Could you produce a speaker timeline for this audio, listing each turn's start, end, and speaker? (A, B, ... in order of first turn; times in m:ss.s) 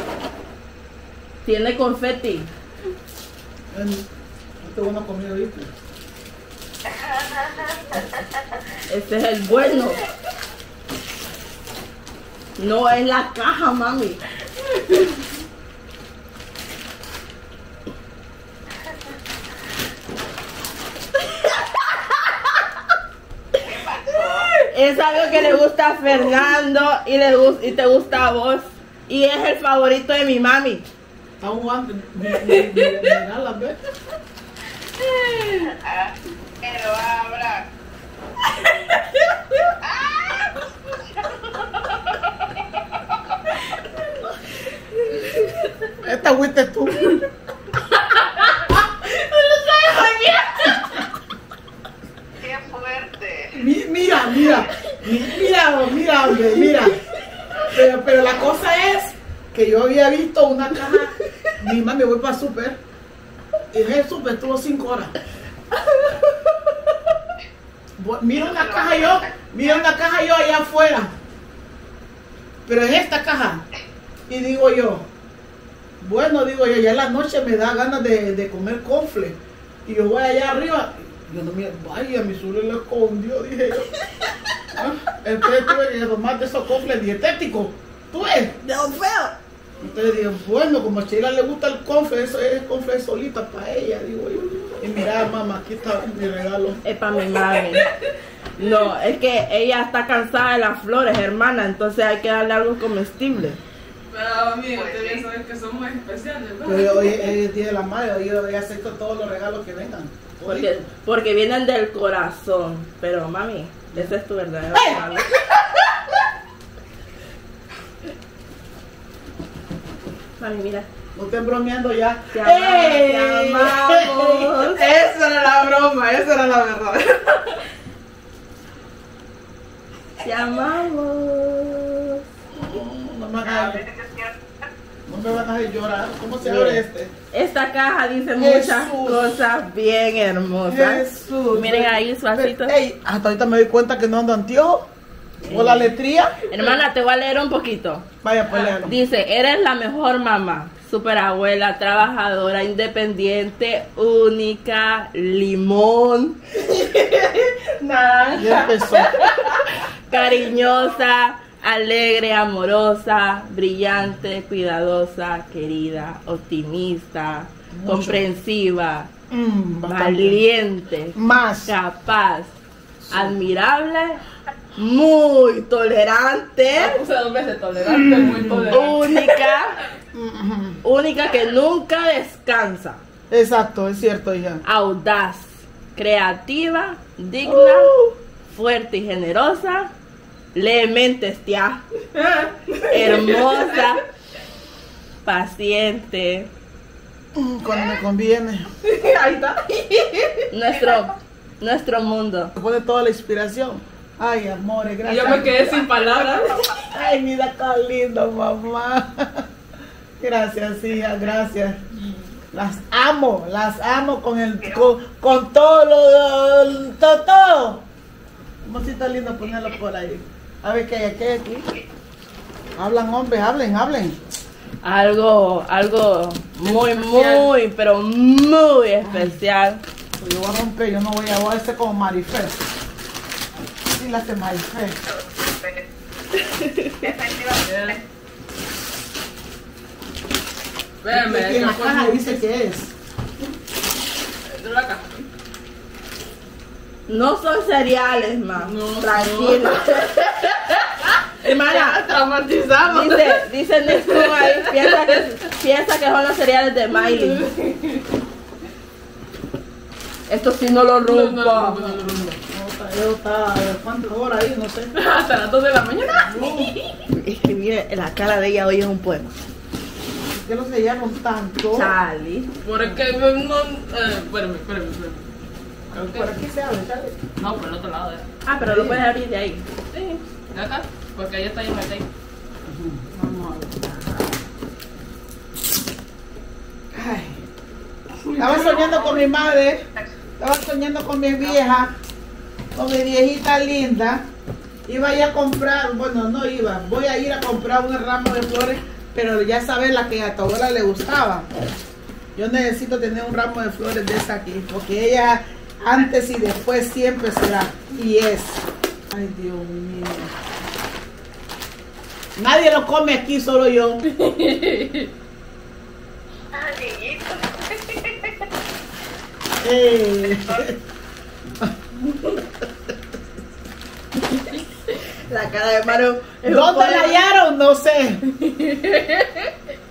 0:01.4-0:02.5 A
0:03.7-0:04.0 B
0:04.6-0:05.7 B
0:06.8-0:08.6 C
0:08.9-0:10.0 A
0:12.6-0:14.2 A
0:23.6-0:24.5 C
0:24.7-0:30.8 A
0:31.4-0:33.8 B
0:35.0-0:35.6 D
0:35.5-0:37.6 C
0:39.6-0:42.6 C
0:46.0-0:47.2 B
0:49.1-0:50.4 D
0:52.4-0:53.5 C
0:53.5-0:57.0 B
0:57.6-1:02.8 B
1:03.7-1:05.1 B
1:08.0-1:11.1 B
1:08.4-1:09.8 C
1:12.6-1:13.6 B
1:14.3-1:15.1 B
1:16.0-1:23.9 B
1:24.7-1:28.6 B
1:28.6-1:29.4 A
1:29.8-1:36.8 B
1:36.8-1:37.9 A
1:37.3-1:38.8 D
1:38.6-1:43.6 A
1:44.1-1:47.3 D
1:44.7-1:45.2 C
1:46.6-1:50.7 B
1:50.4-1:55.4 A
1:54.7-1:56.0 B
2:00.4-2:00.9 A
2:01.1-2:04.7 B
2:02.3-2:04.8 A
2:04.7-2:07.6 D
2:10.2-2:12.2 A
2:12.5-2:13.8 B
2:13.4-2:14.4 C
2:15.1-2:17.1 B
2:16.4-2:22.8 A
2:18.4-2:19.3 B
2:20.7-2:24.9 B
2:25.4-2:26.4 B
2:25.4-2:25.9 A
2:26.5-2:28.1 A
2:28.2-2:29.0 B
2:28.8-2:36.5 A
2:36.7-2:39.6 D
2:38.3-2:39.2 B
2:40.1-2:49.1 A
2:47.7-2:48.2 B
2:49.3-2:50.4 B
2:49.9-2:52.6 A
2:51.1-2:51.7 B
2:53.0-2:53.4 B
2:53.1-2:54.2 A
2:54.7-2:57.0 A
2:56.7-2:59.6 D
2:57.8-2:58.9 B
2:58.7-2:59.8 A
3:00.1-3:00.8 B
3:00.8-3:03.0 A
3:03.3-3:04.6 B
3:04.6-3:08.0 A
3:07.4-3:08.1 B
3:08.5-3:09.9 A
3:10.5-3:11.8 A
3:12.1-3:14.0 D
3:12.9-3:14.0 A
3:15.2-3:16.5 A
3:17.3-3:18.7 B
3:18.8-3:21.0 D
3:20.5-3:22.5 A
3:22.5-3:25.7 B
3:25.0-3:26.7 D
3:26.1-3:26.9 C
3:26.8-3:29.5 B
3:30.2-3:31.8 B
3:32.5-3:37.8 B
3:38.6-3:41.6 B
3:42.8-3:44.2 B
3:44.8-3:49.8 A
3:46.6-3:47.5 D
3:49.0-3:49.4 B
3:50.2-3:52.6 B
3:53.9-3:55.0 B
3:55.1-3:58.0 C
3:56.5-3:57.0 A
3:57.6-3:58.0 D
4:01.0-4:02.4 D
4:01.1-4:02.9 B
4:04.5-4:05.3 D
4:07.1-4:10.5 A
4:08.6-4:15.2 D
4:11.4-4:12.0 A
4:12.8-4:17.4 A
4:16.9-4:18.1 D
4:20.3-4:22.0 A
4:21.0-4:22.4 D
4:22.5-4:24.9 B
4:24.9-4:27.0 D
4:26.1-4:26.7 B
4:27.1-4:29.3 A
4:30.2-4:32.0 B
4:31.7-4:32.5 A
4:32.6-4:35.2 D
4:35.9-4:37.2 B
4:35.9-4:36.3 D
4:37.4-4:38.3 D
4:38.4-4:40.2 A
4:38.6-4:39.0 B
4:40.5-4:42.1 D
4:42.6-4:44.1 B
4:46.9-4:47.4 B
4:48.3-4:48.9 D
4:48.4-4:49.8 B
4:48.5-4:49.3 C
4:50.4-4:51.9 B
4:52.7-4:54.3 B
4:54.8-5:01.5 B
5:02.3-5:10.3 B
5:12.4-5:14.1 B
5:14.1-5:15.1 D
5:16.5-5:18.5 C
5:19.6-5:20.8 B
5:25.3-5:27.2 A
5:26.4-5:28.2 B
5:28.3-5:29.5 D